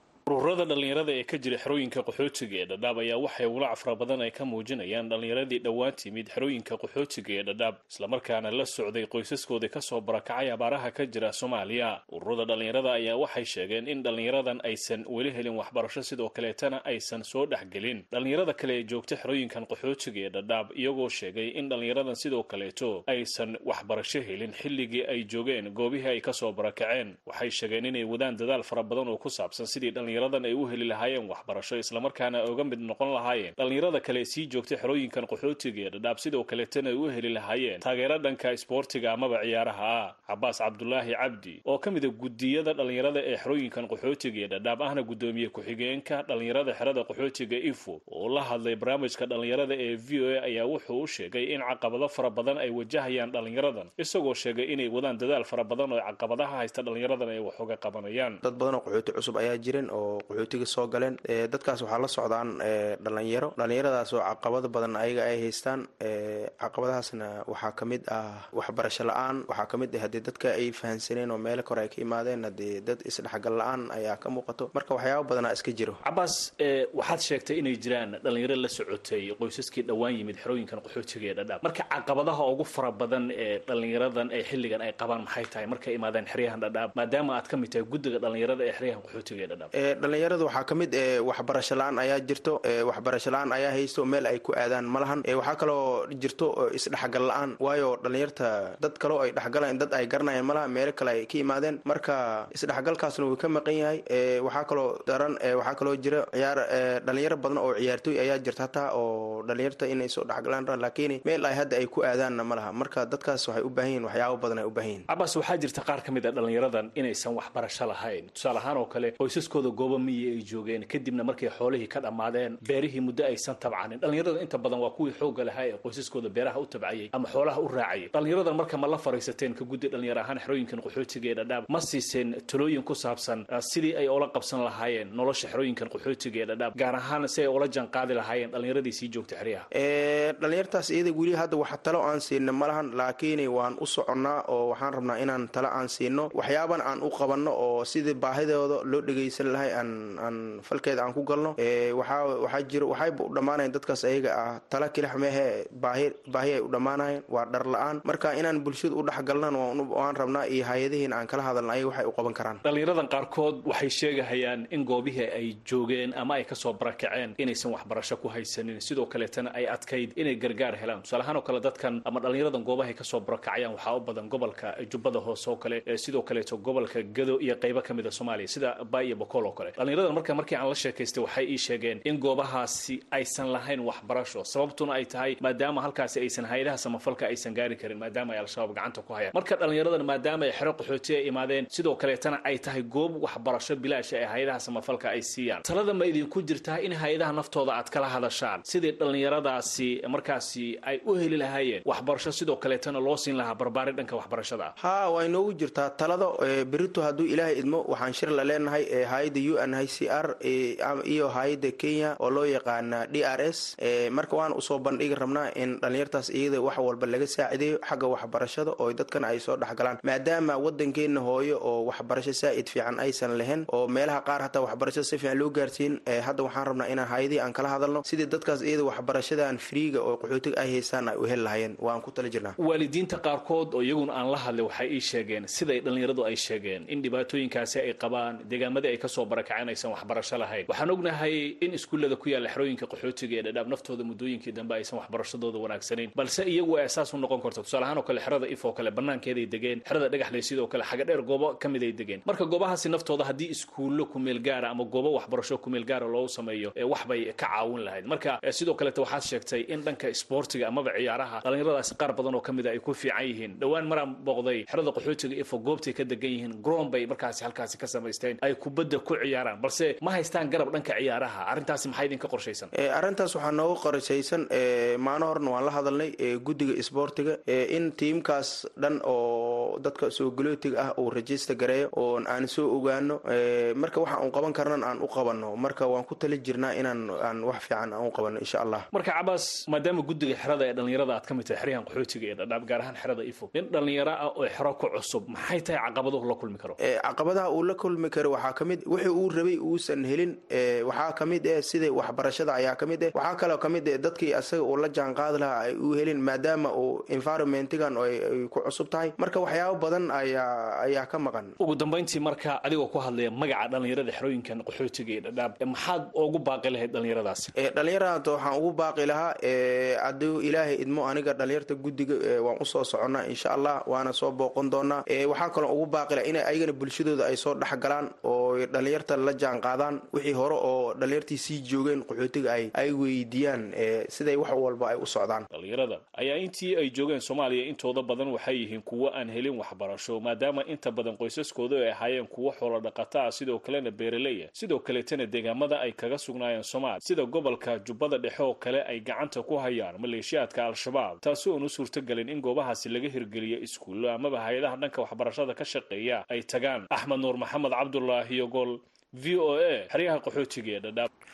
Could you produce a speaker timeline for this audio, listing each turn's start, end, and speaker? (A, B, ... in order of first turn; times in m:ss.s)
0:00.3-0:58.4 A
0:58.4-1:16.0 B
1:16.0-1:29.7 A
1:29.8-1:55.0 B
1:55.1-2:19.7 A
2:19.8-2:42.6 B
2:42.7-3:24.7 A
3:24.8-3:52.6 B
3:52.6-4:32.7 A
4:32.8-4:48.8 B
4:48.9-4:56.8 A
4:56.9-5:11.5 B
5:11.6-5:17.5 A
5:17.6-5:35.5 B
5:35.5-6:01.1 A